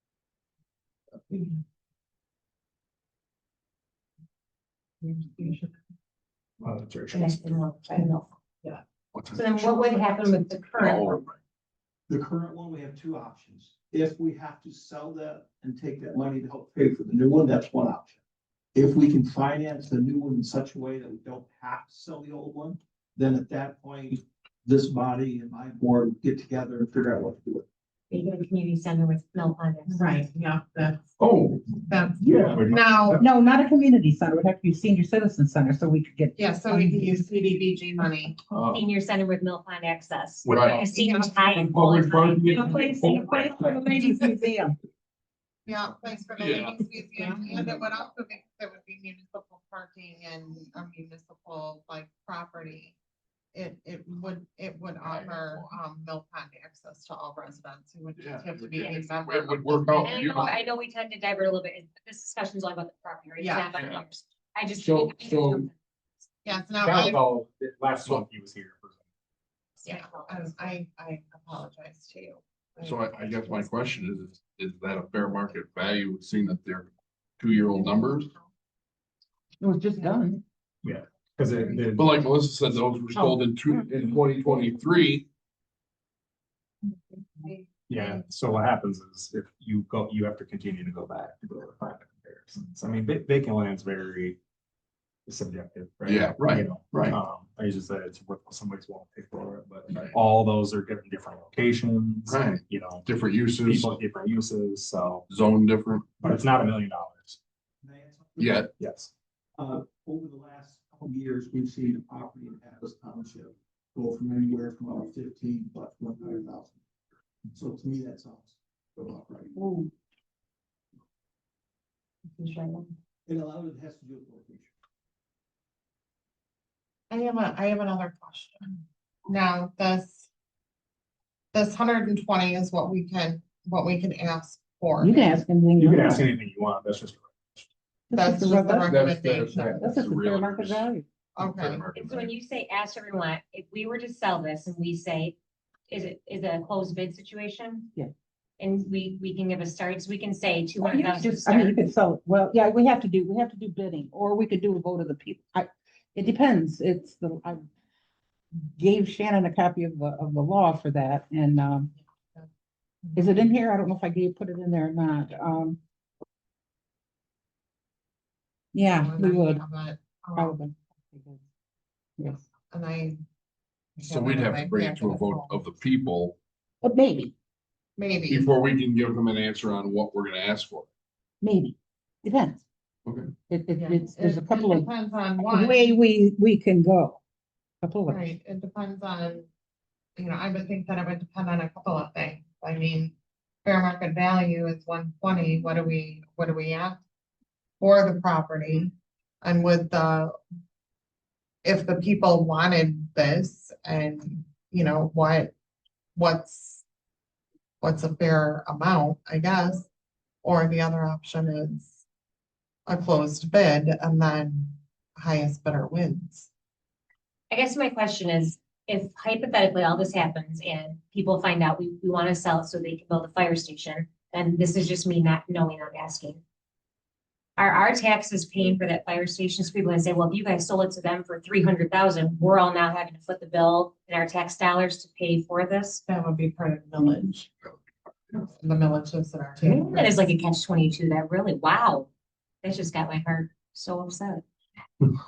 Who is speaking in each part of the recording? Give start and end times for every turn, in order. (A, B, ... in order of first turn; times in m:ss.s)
0:01.3-0:01.6 A
0:05.0-0:05.7 A
0:06.6-0:07.4 B
0:07.1-0:08.3 C
0:09.1-0:09.4 D
0:09.3-0:11.2 C
0:09.5-0:10.3 A
0:10.8-0:11.4 D
0:12.1-0:18.2 E
0:18.7-0:27.6 E
0:28.1-0:30.2 C
0:29.9-0:31.1 A
0:31.2-0:31.8 D
0:31.9-0:33.2 A
0:32.2-0:33.2 B
0:33.2-0:37.1 F
0:36.4-0:38.4 A
0:38.5-0:38.8 D
0:38.7-0:44.0 C
0:40.4-0:40.9 D
0:40.9-0:41.4 A
0:41.5-0:43.6 D
0:43.2-0:44.8 F
0:45.6-0:52.9 A
0:46.4-0:46.8 D
0:53.5-1:00.6 A
0:55.0-0:55.7 D
0:58.2-1:00.6 D
1:00.0-1:05.7 C
1:03.4-1:03.7 A
1:03.7-1:04.0 D
1:04.7-1:05.7 D
1:06.4-1:07.2 A
1:06.8-1:09.0 B
1:09.8-1:10.7 C
1:09.8-1:13.7 A
1:12.8-1:18.3 D
1:17.7-1:18.4 A
1:19.6-1:20.4 F
1:19.9-1:20.3 A
1:20.8-1:22.1 B
1:21.5-1:21.9 A
1:22.0-1:25.2 D
1:26.8-1:28.2 A
1:27.9-1:34.4 B
1:35.3-1:45.2 B
1:36.0-1:37.2 D
1:42.3-1:44.0 D
1:45.3-1:46.2 D
1:46.2-1:47.4 B
1:47.8-1:48.6 E
1:48.4-1:48.7 D
1:48.8-1:49.1 B
1:49.6-1:56.8 E
1:57.5-1:59.6 E
1:59.6-1:59.9 F
2:02.3-2:02.9 C
2:03.2-2:04.7 E
2:07.1-2:10.3 A
2:11.5-2:15.4 A
2:15.0-2:16.2 F
2:15.8-2:17.7 B
2:18.1-2:19.0 F
2:18.1-2:19.9 A
2:18.9-2:22.3 D
2:19.7-2:21.0 F
2:21.4-2:21.8 A
2:21.9-2:25.4 C
2:25.9-2:27.9 C
2:28.6-2:31.9 C
2:30.8-2:37.6 F
2:38.7-2:41.9 F
2:43.0-2:43.5 A
2:43.2-2:45.8 F
2:48.7-2:49.6 F
2:48.9-2:50.6 A
2:50.4-2:51.4 F
2:52.2-2:52.5 F
2:52.6-2:53.2 A
2:54.0-2:55.6 A
2:54.0-2:56.4 D
2:56.8-2:57.3 F
2:58.0-2:58.5 A
2:58.3-3:00.9 D
3:01.4-3:02.6 F
3:03.0-3:03.3 D
3:03.5-3:07.2 F
3:03.7-3:05.9 A
3:07.8-3:08.2 F
3:08.1-3:09.4 A
3:10.2-3:13.1 A
3:13.6-3:17.0 A
3:17.8-3:20.4 A
3:21.6-3:25.5 A
3:26.2-3:26.8 A
3:27.8-3:29.8 A
3:30.4-3:32.0 A
3:32.9-3:36.5 A
3:37.5-3:46.4 C
3:47.6-3:56.0 C
3:56.1-3:57.5 A
3:58.5-4:00.2 A
3:59.6-4:02.1 C
4:02.6-4:04.4 C